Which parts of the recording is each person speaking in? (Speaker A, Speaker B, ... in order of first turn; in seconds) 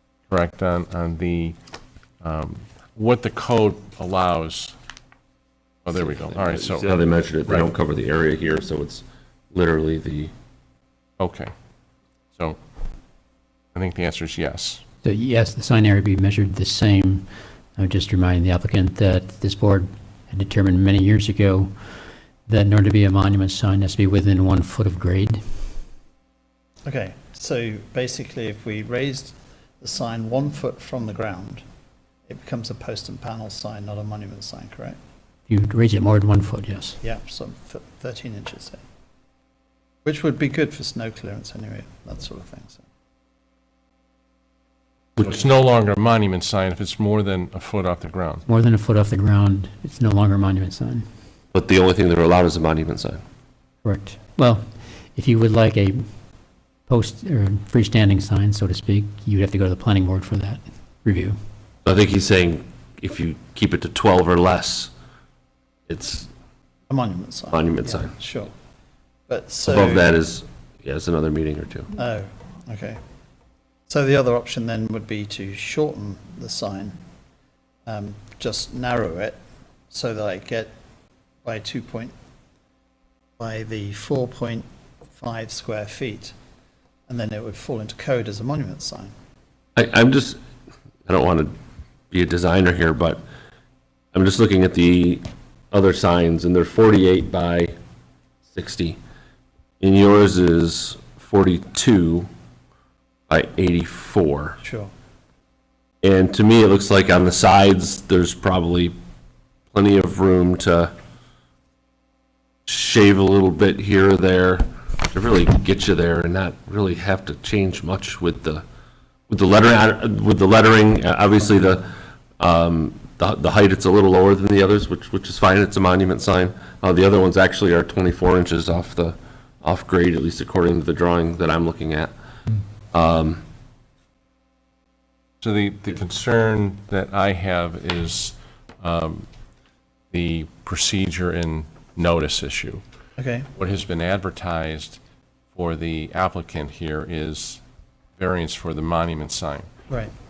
Speaker A: 0.3-1.6, 2.2-4.8, 5.8-7.0, 11.2-11.5, 13.7-14.8, 45.2-48.5, 135.4-139.3, 140.1-142.8, 143.6-145.0, 145.5-147.6, 148.2-149.7
Speaker B: 6.1-10.3, 51.5-53.2, 61.9-64.9, 65.9-66.3, 67.5-68.2, 69.7-71.9, 89.8-90.4, 91.1-91.5, 92.1-93.2, 94.1-97.7, 98.5-99.0, 99.8-102.3, 103.3-104.6, 106.0-109.0, 109.7-110.9, 112.7-118.6, 119.3-132.1, 132.9-133.4
Speaker C: 15.0-21.7, 22.5-25.4, 35.5-37.0, 48.5-51.1, 53.8-56.0, 56.9-61.4
Speaker D: 26.9-31.6, 32.3-35.0, 37.0-38.8, 40.0-42.8, 66.9-68.5, 69.3-70.1, 71.9-73.0, 73.9-77.0, 77.9-79.4, 79.9-80.7, 81.5-82.1, 83.4-86.3, 87.1-89.1, 104.6-104.9, 143.2-143.5